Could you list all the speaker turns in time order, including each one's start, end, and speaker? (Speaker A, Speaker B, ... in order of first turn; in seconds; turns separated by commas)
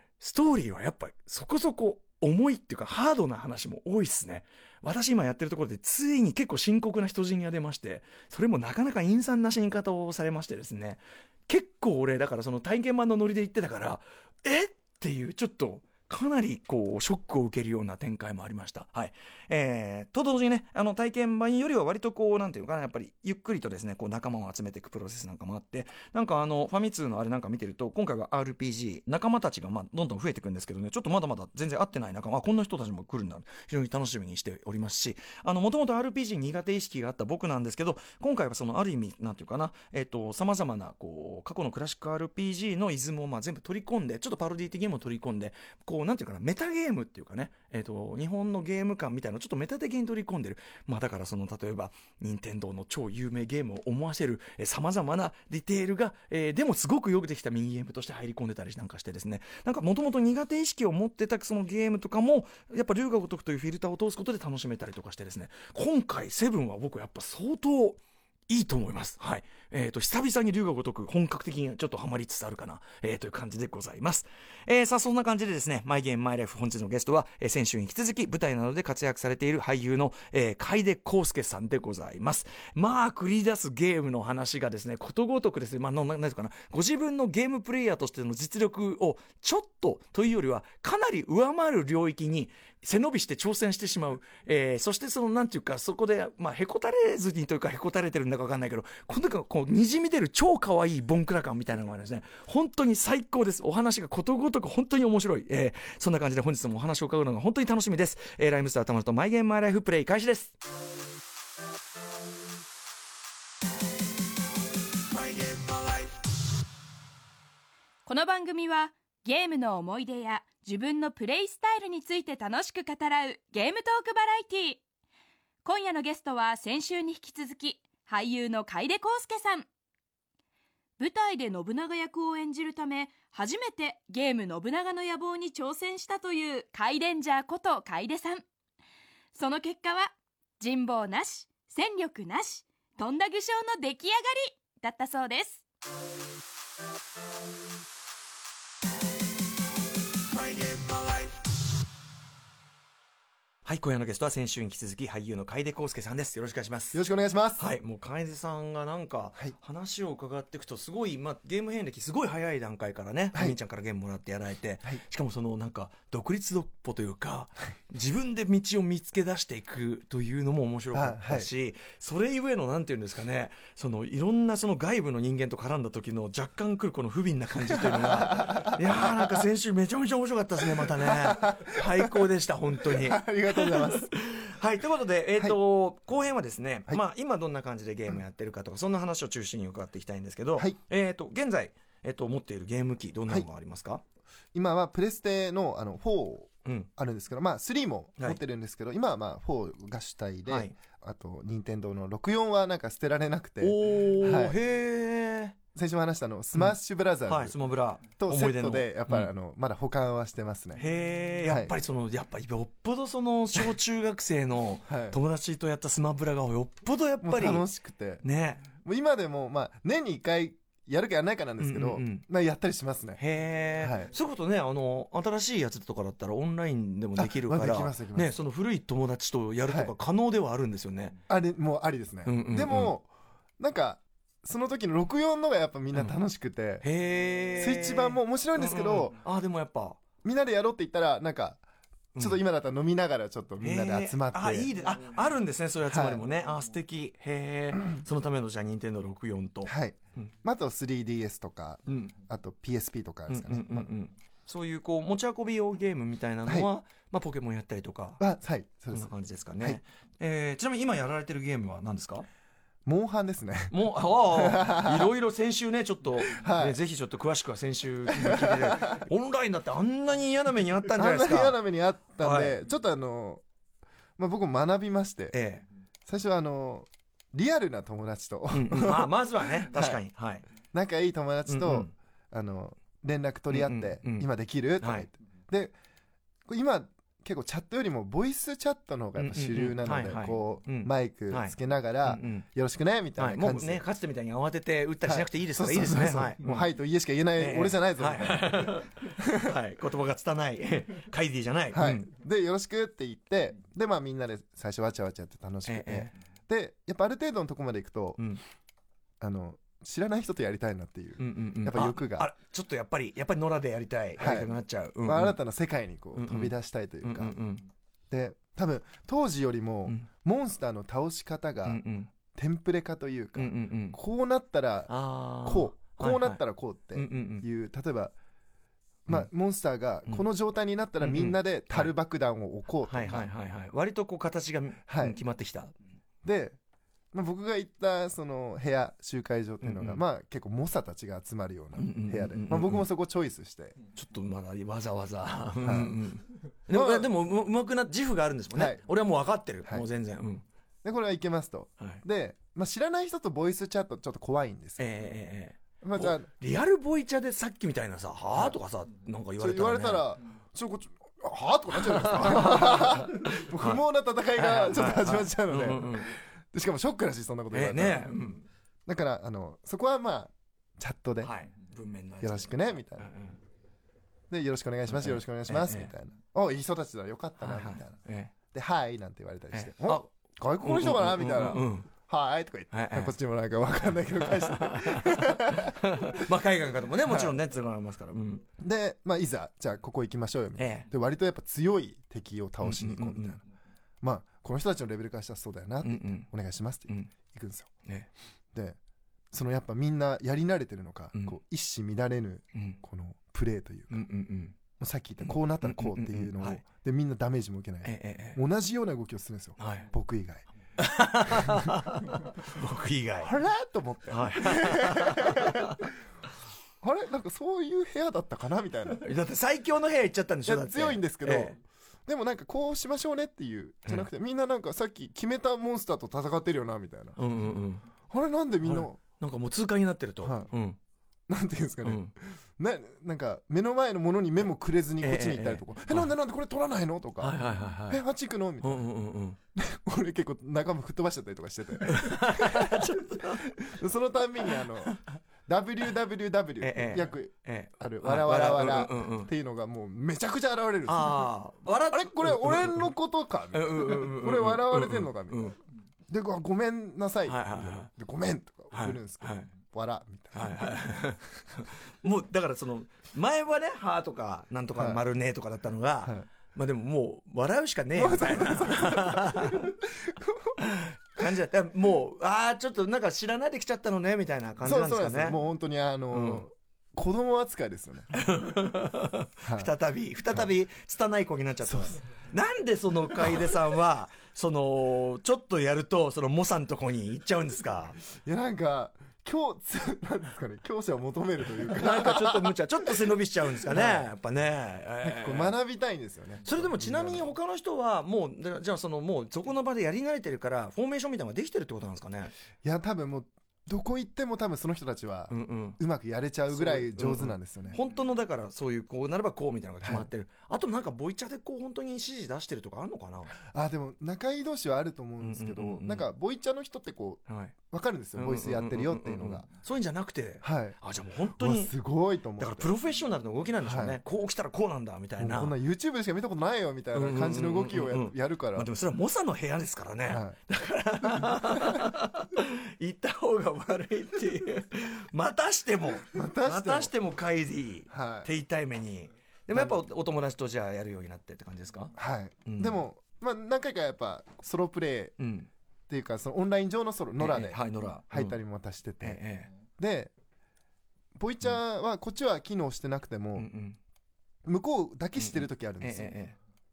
Speaker A: 0.2-110.5, Speaker B: 118.0-124.8, Speaker B: 125.6-129.7, Speaker B: 131.0-138.4, Speaker B: 139.3-145.6, Speaker A: 150.4-151.3, Speaker A: 153.6-157.0, Speaker C: 156.9-157.6, Speaker A: 157.6-194.0, Speaker C: 170.9-171.5, Speaker C: 177.7-179.4, Speaker C: 180.8-182.3, Speaker C: 182.8-184.1, Speaker C: 194.5-204.6, Speaker A: 200.5-200.8, Speaker A: 203.6-205.6, Speaker C: 205.7-207.6, Speaker A: 207.2-209.3, Speaker C: 208.2-210.8, Speaker A: 210.8-217.7, Speaker C: 211.4-211.7, Speaker C: 214.9-215.2, Speaker C: 217.2-218.2, Speaker A: 218.2-218.7, Speaker C: 218.8-223.2, Speaker A: 221.6-222.2, Speaker A: 223.2-231.2, Speaker C: 223.8-224.1, Speaker C: 227.2-228.3, Speaker C: 229.7-229.9, Speaker C: 231.3-233.1, Speaker A: 232.2-232.9, Speaker C: 233.6-236.8, Speaker A: 236.8-240.0, Speaker C: 237.6-239.2, Speaker C: 240.2-241.6, Speaker A: 242.2-242.4, Speaker C: 242.2-244.7, Speaker A: 243.6-250.3, Speaker C: 245.9-246.2, Speaker C: 249.7-253.9, Speaker A: 251.9-252.1, Speaker A: 253.3-258.2, Speaker C: 258.2-259.8, Speaker A: 258.9-262.2, Speaker C: 262.8-263.7, Speaker A: 263.7-271.6, Speaker C: 264.3-265.1, Speaker C: 266.2-266.8, Speaker C: 268.1-269.0, Speaker C: 270.9-273.4, Speaker A: 272.2-272.6, Speaker C: 274.2-275.4, Speaker A: 275.3-275.6, Speaker C: 276.1-280.0, Speaker A: 278.5-280.5, Speaker C: 280.7-285.8, Speaker A: 281.5-281.9, Speaker A: 283.5-284.3, Speaker A: 284.8-285.1, Speaker C: 286.5-293.8, Speaker A: 289.1-292.4, Speaker A: 293.2-296.7, Speaker C: 295.0-299.5, Speaker A: 297.4-302.1, Speaker C: 301.7-308.2, Speaker A: 305.6-306.1, Speaker C: 309.2-312.3, Speaker A: 311.2-315.4, Speaker C: 314.2-317.4, Speaker A: 316.1-317.7, Speaker C: 318.1-324.9, Speaker A: 321.6-322.1, Speaker A: 323.4-324.0, Speaker A: 324.9-326.4, Speaker C: 325.4-328.1, Speaker A: 326.9-327.4, Speaker C: 329.1-333.3, Speaker A: 331.0-331.9, Speaker A: 332.8-335.7, Speaker C: 334.9-335.2, Speaker C: 336.2-336.6, Speaker C: 337.1-343.8, Speaker A: 339.6-340.0, Speaker A: 341.8-342.9, Speaker A: 343.9-350.4, Speaker C: 345.6-346.0, Speaker C: 346.7-347.1, Speaker C: 348.5-348.8, Speaker C: 350.8-354.9, Speaker A: 354.8-360.1, Speaker C: 355.8-356.3, Speaker C: 359.4-368.1, Speaker A: 361.8-363.8, Speaker A: 364.3-366.2, Speaker A: 367.5-368.4, Speaker C: 368.9-371.3, Speaker A: 371.2-373.4, Speaker C: 372.2-373.1, Speaker C: 374.3-378.0, Speaker A: 374.9-375.9, Speaker A: 377.4-378.3, Speaker C: 378.5-386.3, Speaker A: 379.5-380.1, Speaker A: 380.6-381.9, Speaker A: 382.7-383.1, Speaker A: 384.2-388.4, Speaker C: 387.0-387.4, Speaker C: 388.6-393.4, Speaker A: 390.6-390.9, Speaker A: 392.6-393.4, Speaker C: 394.0-397.7, Speaker A: 395.8-396.3, Speaker C: 399.3-404.0, Speaker A: 403.9-404.6, Speaker C: 404.8-410.4, Speaker A: 405.2-406.6, Speaker A: 407.8-408.4, Speaker A: 409.6-409.9, Speaker A: 410.8-413.3, Speaker C: 411.2-411.8, Speaker C: 413.2-415.9, Speaker A: 414.1-415.9, Speaker C: 416.8-419.0, Speaker A: 419.0-421.6, Speaker C: 420.4-427.2, Speaker A: 427.2-427.9, Speaker C: 428.1-429.0, Speaker A: 428.6-430.8, Speaker C: 430.2-430.5, Speaker C: 431.3-438.8, Speaker A: 431.8-432.1, Speaker A: 435.0-436.1, Speaker A: 437.2-438.0, Speaker A: 438.6-439.4, Speaker C: 439.5-455.6, Speaker A: 441.9-443.6, Speaker A: 446.6-449.3, Speaker A: 450.9-452.9, Speaker A: 453.5-455.6, Speaker C: 456.1-460.7, Speaker A: 457.2-457.9, Speaker A: 458.7-459.5, Speaker A: 460.3-469.7, Speaker C: 464.7-465.0, Speaker C: 467.9-470.6, Speaker A: 470.6-475.4, Speaker C: 474.6-478.2, Speaker A: 476.1-476.4, Speaker A: 478.1-488.0, Speaker C: 479.4-479.7, Speaker C: 481.7-481.9, Speaker C: 488.2-494.1, Speaker A: 491.7-495.6, Speaker C: 495.0-497.3, Speaker A: 496.4-502.3, Speaker C: 502.6-507.8, Speaker A: 505.3-505.8, Speaker A: 506.5-513.4, Speaker C: 509.8-510.1, Speaker C: 513.4-519.5, Speaker A: 515.2-516.1, Speaker A: 517.3-517.5, Speaker A: 518.1-521.7, Speaker C: 520.4-520.8, Speaker C: 521.3-522.7, Speaker A: 522.4-525.5, Speaker C: 523.6-524.0, Speaker C: 525.2-528.7, Speaker A: 526.9-541.9, Speaker C: 530.1-530.4, Speaker C: 531.2-531.8, Speaker C: 536.1-536.9, Speaker C: 537.9-538.3, Speaker C: 539.5-539.8, Speaker C: 542.0-545.2, Speaker A: 542.5-542.8, Speaker A: 545.2-545.5, Speaker C: 545.9-549.2, Speaker A: 547.2-548.4, Speaker A: 549.0-549.5, Speaker C: 549.8-550.1, Speaker C: 551.1-553.5, Speaker A: 553.4-553.8, Speaker C: 554.4-556.1, Speaker A: 555.2-556.4